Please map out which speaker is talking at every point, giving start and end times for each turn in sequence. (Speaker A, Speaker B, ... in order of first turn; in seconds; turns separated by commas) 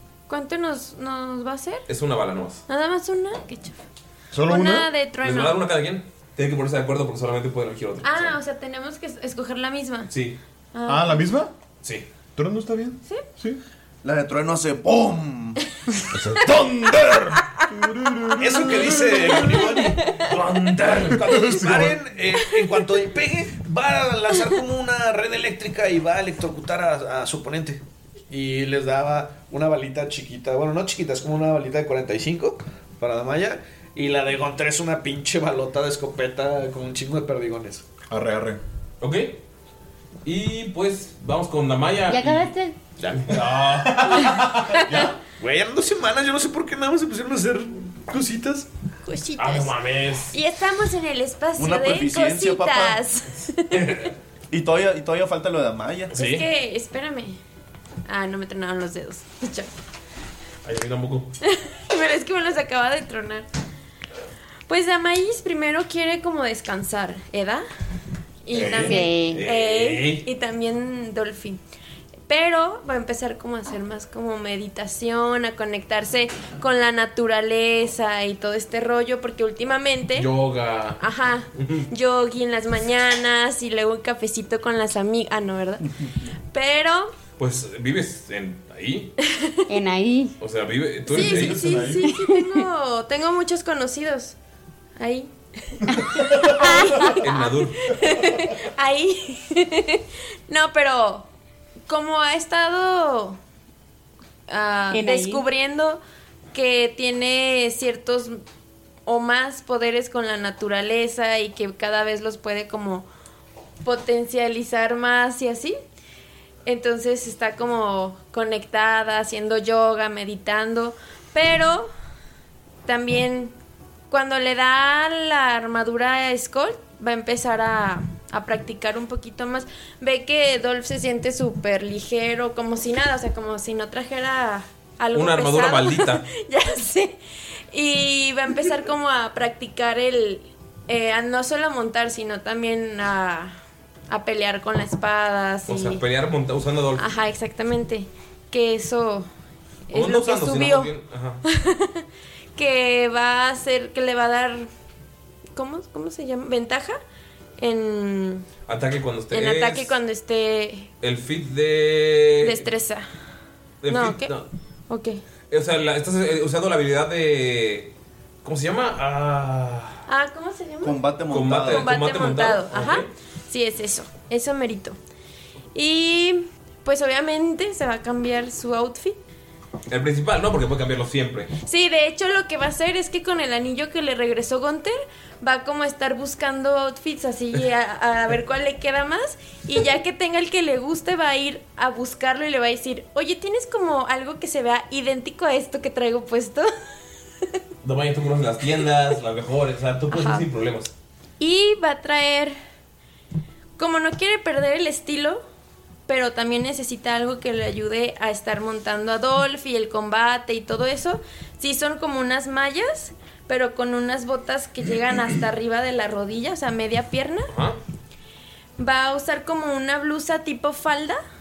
Speaker A: 0.3-1.8, Speaker B: 1.9-2.6, Speaker A: 2.7-3.8, Speaker C: 4.3-4.9, Speaker A: 4.5-5.6, Speaker B: 5.2-8.4, Speaker A: 8.0-10.1, Speaker B: 10.1-10.4, Speaker A: 10.7-11.3, Speaker C: 10.9-11.5, Speaker C: 12.4-13.6, Speaker D: 14.0-15.6, Speaker C: 16.1-19.2, Speaker E: 18.4-20.0, Speaker A: 19.3-20.3, Speaker B: 20.2-21.4, Speaker E: 21.0-37.9, Speaker C: 21.3-22.0, Speaker C: 38.1-38.6, Speaker B: 39.0-39.4, Speaker B: 40.2-42.5, Speaker F: 42.1-42.8, Speaker E: 43.0-43.9, Speaker B: 43.1-44.5, Speaker C: 44.9-45.2, Speaker E: 45.4-48.7, Speaker A: 49.1-49.8, Speaker B: 49.4-50.4, Speaker A: 50.3-54.1, Speaker D: 51.6-53.0, Speaker B: 53.7-54.1, Speaker D: 54.5-56.1, Speaker A: 56.1-57.4, Speaker B: 56.1-56.5, Speaker A: 58.1-59.7, Speaker B: 60.6-61.3, Speaker A: 61.5-63.5, Speaker A: 64.7-67.7, Speaker A: 68.5-71.6, Speaker C: 68.5-69.0, Speaker B: 68.6-70.3, Speaker F: 68.7-69.4, Speaker A: 72.3-80.3, Speaker B: 80.2-81.0, Speaker A: 81.0-85.8, Speaker B: 81.5-81.9, Speaker A: 86.5-87.2, Speaker B: 87.4-89.1, Speaker A: 89.2-89.6, Speaker F: 89.7-90.3, Speaker B: 90.4-91.7, Speaker A: 91.1-94.4, Speaker C: 91.1-92.1, Speaker F: 92.0-92.7, Speaker A: 95.0-101.3, Speaker F: 95.9-97.2, Speaker C: 96.2-96.8, Speaker B: 97.2-97.8, Speaker A: 101.9-103.4, Speaker A: 104.5-106.0, Speaker F: 104.9-105.4, Speaker A: 106.5-108.4, Speaker A: 109.1-113.1, Speaker A: 113.8-115.8, Speaker A: 116.7-121.9, Speaker A: 122.9-123.5, Speaker A: 124.1-137.2, Speaker B: 135.1-136.2, Speaker A: 137.7-143.6, Speaker A: 144.1-146.0, Speaker B: 145.7-147.0, Speaker A: 147.0-149.3, Speaker A: 149.9-150.9, Speaker B: 149.9-151.4, Speaker A: 151.4-152.1, Speaker A: 152.6-154.7, Speaker A: 155.6-157.0, Speaker A: 157.6-158.5, Speaker B: 158.7-160.0, Speaker A: 159.3-160.9, Speaker B: 161.0-162.7, Speaker A: 162.4-163.1, Speaker B: 163.8-164.5, Speaker A: 163.9-164.4, Speaker A: 164.9-165.2, Speaker B: 165.5-167.9, Speaker B: 168.4-170.0, Speaker A: 170.1-175.0, Speaker D: 170.8-171.9, Speaker B: 171.3-173.1, Speaker A: 175.8-179.2, Speaker B: 179.9-181.5, Speaker A: 181.6-196.7, Speaker B: 197.8-200.9, Speaker A: 200.1-200.5, Speaker A: 201.4-202.6, Speaker A: 203.8-205.4, Speaker A: 206.1-217.5, Speaker B: 217.5-217.8, Speaker A: 218.8-221.2